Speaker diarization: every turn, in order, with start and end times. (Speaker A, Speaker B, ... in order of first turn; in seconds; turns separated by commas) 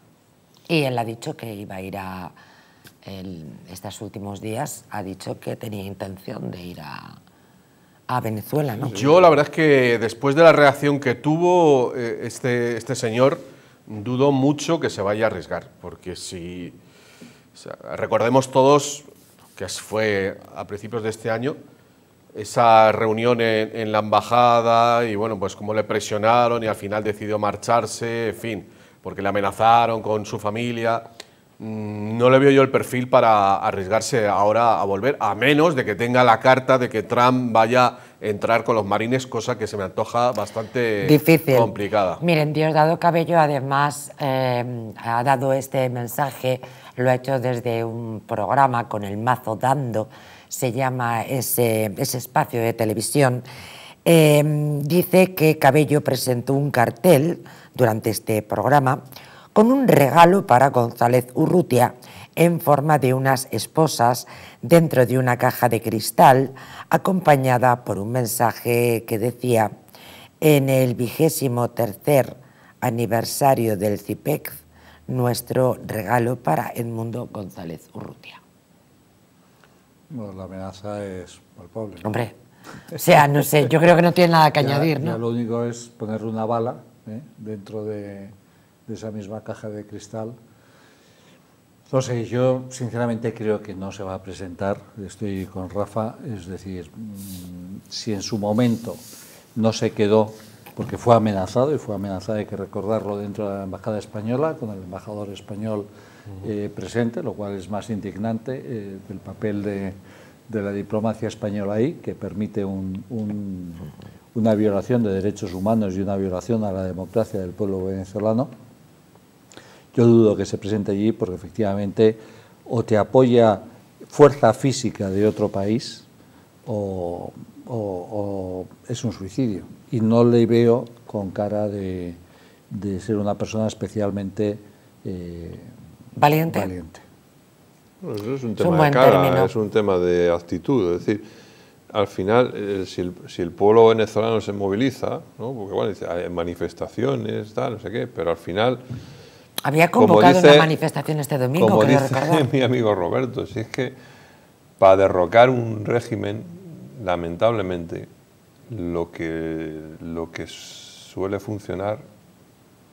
Speaker A: 0.7-2.3, Speaker A: 3.0-7.2, Speaker A: 8.1-9.0, Speaker B: 8.8-9.3, Speaker C: 8.9-16.8, Speaker C: 17.5-21.6, Speaker C: 22.3-31.1, Speaker C: 31.6-42.2, Speaker A: 41.0-53.4, Speaker A: 54.0-59.0, Speaker A: 59.5-69.7, Speaker A: 70.4-78.4, Speaker D: 80.1-82.1, Speaker A: 82.0-82.3, Speaker A: 82.9-85.2, Speaker D: 84.6-88.3, Speaker D: 88.9-90.3, Speaker D: 91.9-99.0, Speaker D: 99.5-105.9, Speaker D: 106.4-110.0, Speaker D: 110.5-118.5, Speaker D: 119.9-126.1, Speaker D: 126.7-132.2, Speaker D: 132.7-135.7, Speaker A: 136.1-136.7, Speaker D: 136.5-137.0, Speaker B: 138.0-141.2, Speaker A: 138.6-139.5, Speaker B: 141.9-148.8, Speaker A: 149.6-152.4, Speaker B: 149.9-150.8, Speaker B: 151.6-153.9, Speaker B: 154.8-158.1, Speaker B: 158.7-162.0